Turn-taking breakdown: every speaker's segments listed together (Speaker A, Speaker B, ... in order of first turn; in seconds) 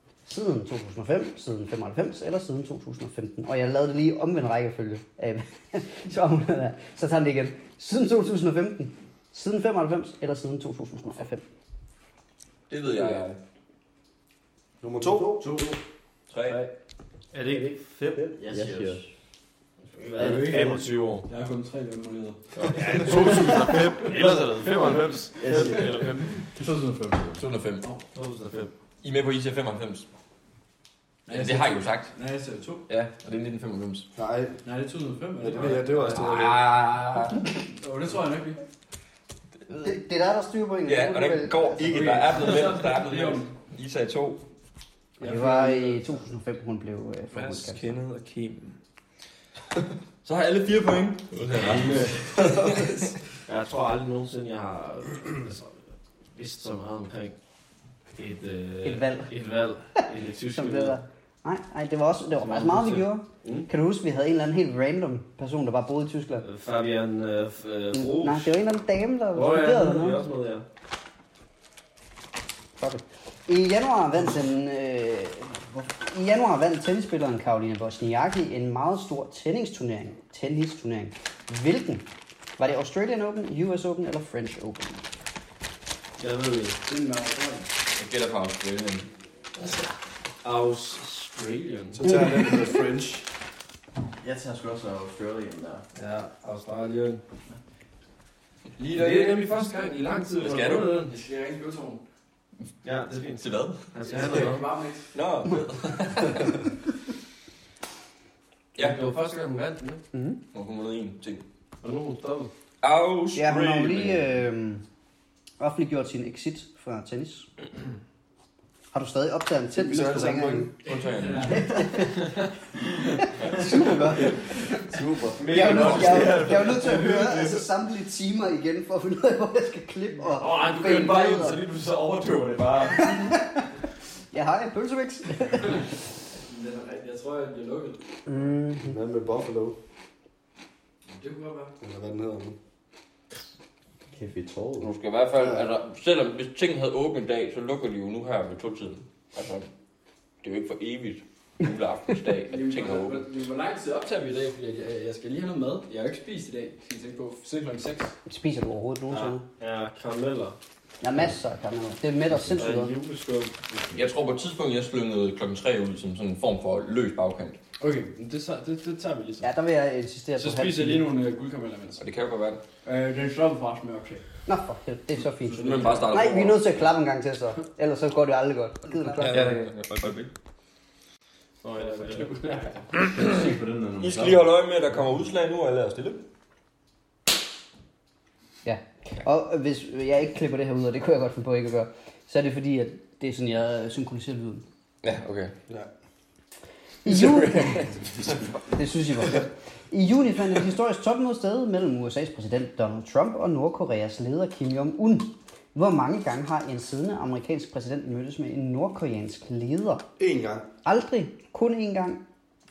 Speaker A: 0.2-11.4, 39.8-42.2, 45.2-47.9, 58.8-59.3, 60.5-66.5, 67.9-70.2, 72.8-82.0, 82.6-85.0, 110.1-110.4, 113.3-114.8, 115.6-117.5, 118.9-120.8, 121.4-122.4, 123.2-124.6, 125.5-131.6, 133.1-133.4, 134.3-135.8, 138.3-138.9, 158.2-159.4, 161.0-162.9, 169.4-171.1, 174.4-179.7, 188.6-194.6, 197.0-198.0, 198.6-210.1, 210.8-212.2
Speaker B: 12.7-13.4, 16.3-16.6, 27.4-27.9, 29.0-30.1, 31.3-32.1, 32.9-34.1, 36.1-37.5, 40.8-44.4, 47.3-48.8, 50.2-53.0, 87.9-89.1, 98.8-101.1, 103.4-104.5, 105.1-106.6, 108.8-109.0, 110.5-111.4, 112.8-114.3, 119.8-121.7, 123.4-123.7, 144.8-149.7, 150.4-153.2, 163.9-167.6, 172.0-172.6, 175.5-176.8, 179.1-180.3, 184.0-186.2, 195.0-195.5, 197.0-198.5
Speaker C: 14.8-15.4, 34.1-34.6, 35.4-36.6, 91.9-93.2, 124.9-126.3, 138.8-139.8, 141.8-142.6, 145.4-145.7, 210.2-210.7
Speaker D: 15.4-15.7, 18.5-18.9, 20.1-24.0, 25.4-25.9, 31.3-32.9, 34.6-36.1, 37.7-38.6, 41.8-43.5, 45.2-46.0, 86.8-87.7, 100.8-102.0, 104.0-105.2, 120.9-121.7, 136.5-138.0, 141.1-141.7, 152.5-158.2, 167.8-169.5, 170.3-172.0, 172.8-174.2, 175.5-176.1, 181.7-182.7
Speaker E: 15.4-15.7, 17.3-18.4, 19.9-21.3, 22.6-26.3, 28.1-28.7, 51.3-52.1, 53.5-57.3, 58.1-61.0, 62.4-63.7, 66.4-68.6, 69.3-70.6, 86.2-86.8, 90.4-92.1, 95.9-97.2, 98.8-101.1, 102.8-104.7, 108.8-110.0, 111.8-112.5, 125.4-127.6, 130.3-133.3, 159.1-160.6, 162.4-163.9, 181.6-182.8
Speaker F: 18.3-19.1, 20.1-20.8, 25.4-27.4, 94.2-95.8, 144.1-144.9, 183.1-184.6